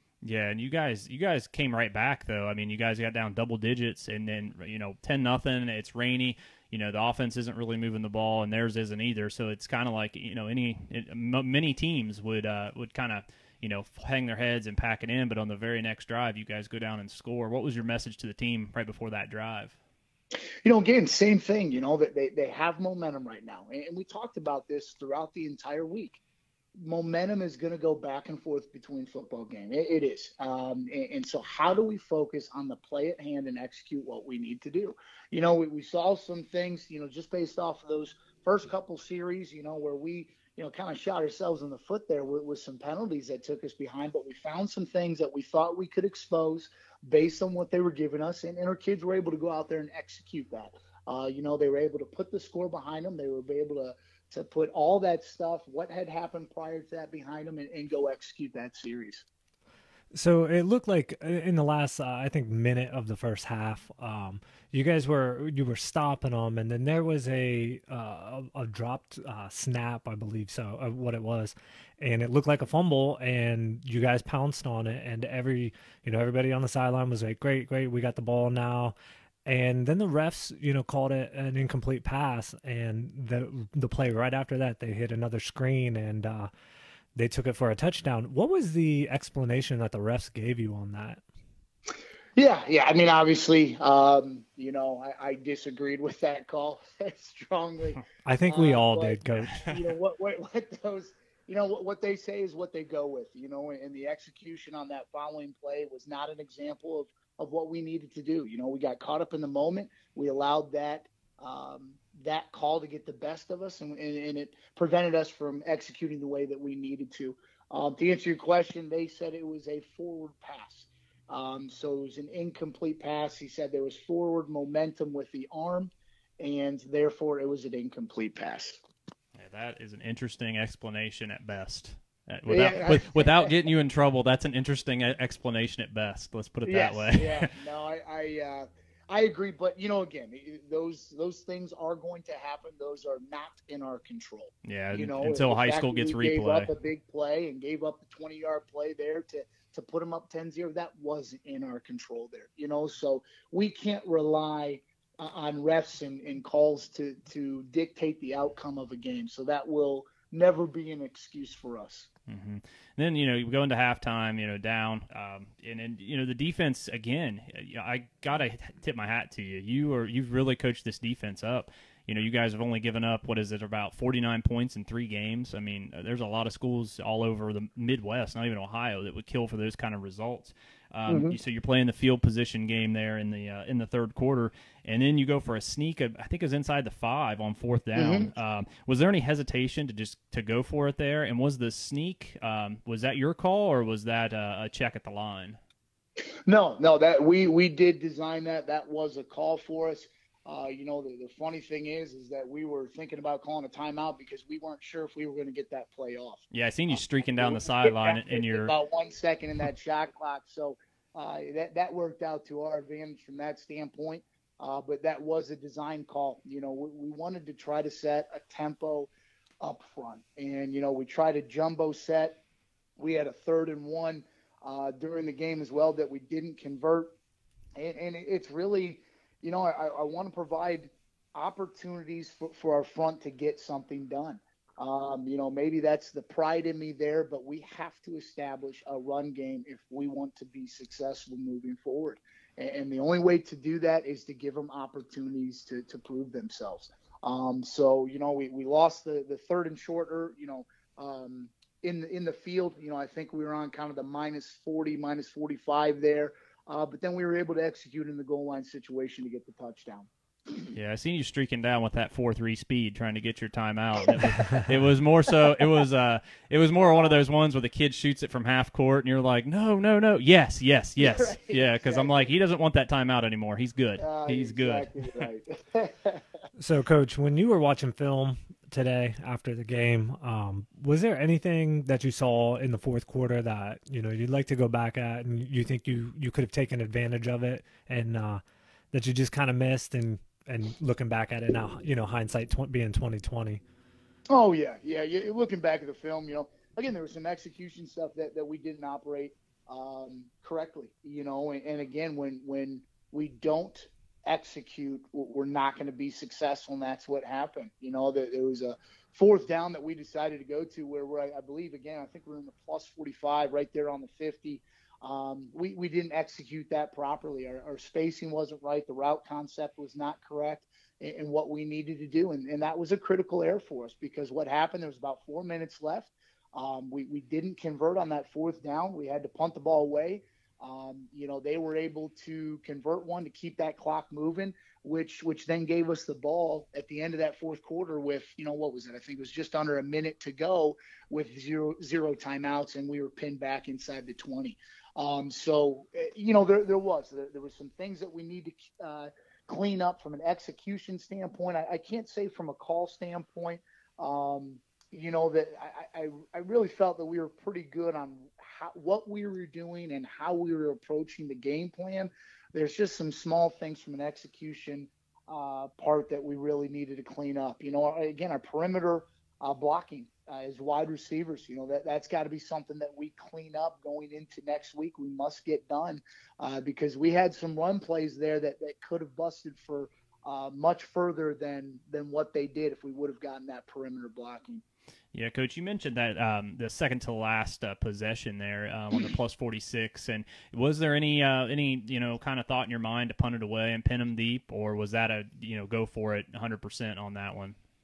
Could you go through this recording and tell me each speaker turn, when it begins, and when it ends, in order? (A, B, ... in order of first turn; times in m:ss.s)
0:00.2-0:19.8 A
0:20.6-0:26.2 B
0:26.8-0:59.2 B
1:00.1-1:19.0 C
1:19.5-1:26.5 C
1:27.2-1:31.2 C
1:32.4-2:08.8 B
1:38.2-1:39.7 C
1:39.4-1:39.8 A
2:09.4-2:17.5 A
2:12.5-2:13.6 B
2:16.6-2:42.1 B
2:24.6-2:26.7 A
2:42.3-3:15.6 A
3:01.1-3:01.4 B
3:08.0-3:08.3 B
3:16.5-3:39.1 B
3:26.5-3:28.7 A
3:39.6-3:42.4 B
3:43.0-3:47.2 B
3:47.8-4:20.1 B
4:20.8-4:35.3 A
4:26.8-4:27.2 B
4:31.0-4:32.3 B
4:34.0-4:36.2 B
4:36.6-4:53.6 C
4:54.3-6:24.6 B
6:25.1-6:37.6 A